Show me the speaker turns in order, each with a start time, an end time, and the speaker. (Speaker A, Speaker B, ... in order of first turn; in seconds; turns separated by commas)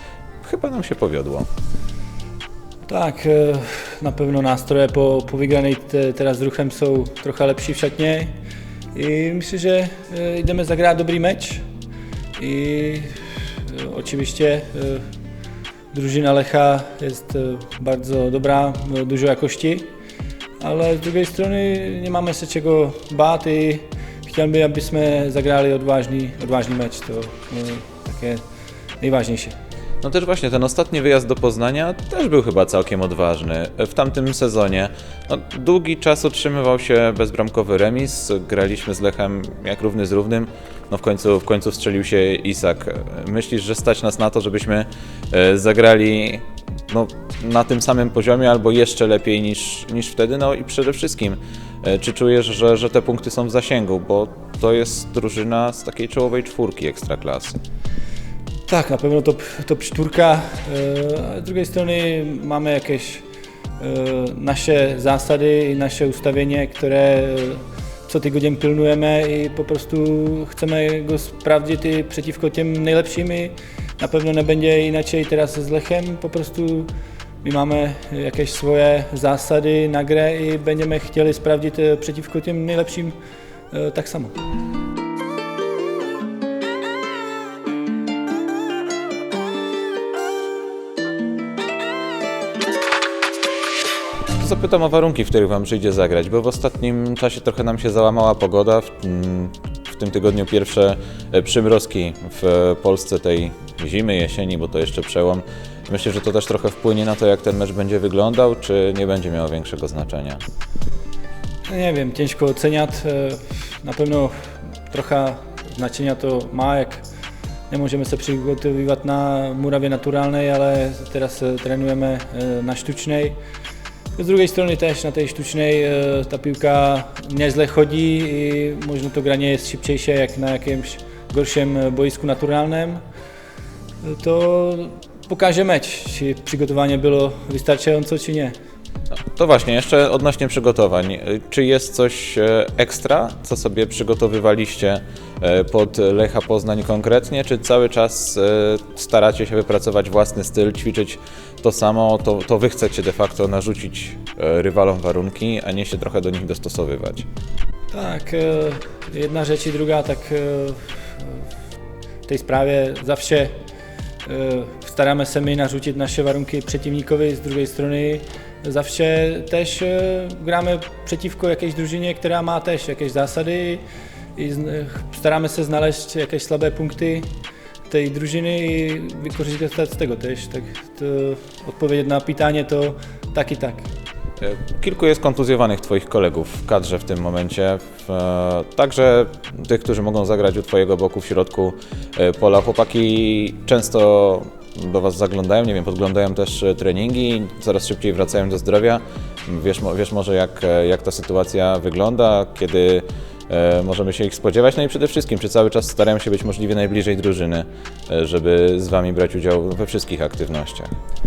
Speaker A: 0.4-1.5, Speaker B: 2.9-8.3, Speaker B: 8.9-11.6, Speaker B: 12.4-15.0, Speaker B: 15.9-19.9, Speaker B: 20.6-28.4, Speaker B: 29.0-29.5, Speaker A: 30.0-57.6, Speaker B: 58.7-63.2, Speaker B: 63.8-76.9, Speaker B: 77.4-83.1, Speaker B: 83.7-84.3, Speaker A: 94.4-110.4, Speaker B: 111.7-117.0, Speaker B: 117.7-123.3, Speaker B: 124.2-133.0, Speaker B: 134.0-138.5, Speaker A: 139.3-157.2, Speaker B: 157.9-161.4, Speaker B: 162.3-163.5, Speaker B: 164.2-173.8, Speaker B: 174.3-177.3, Speaker B: 177.9-183.9, Speaker A: 184.4-210.9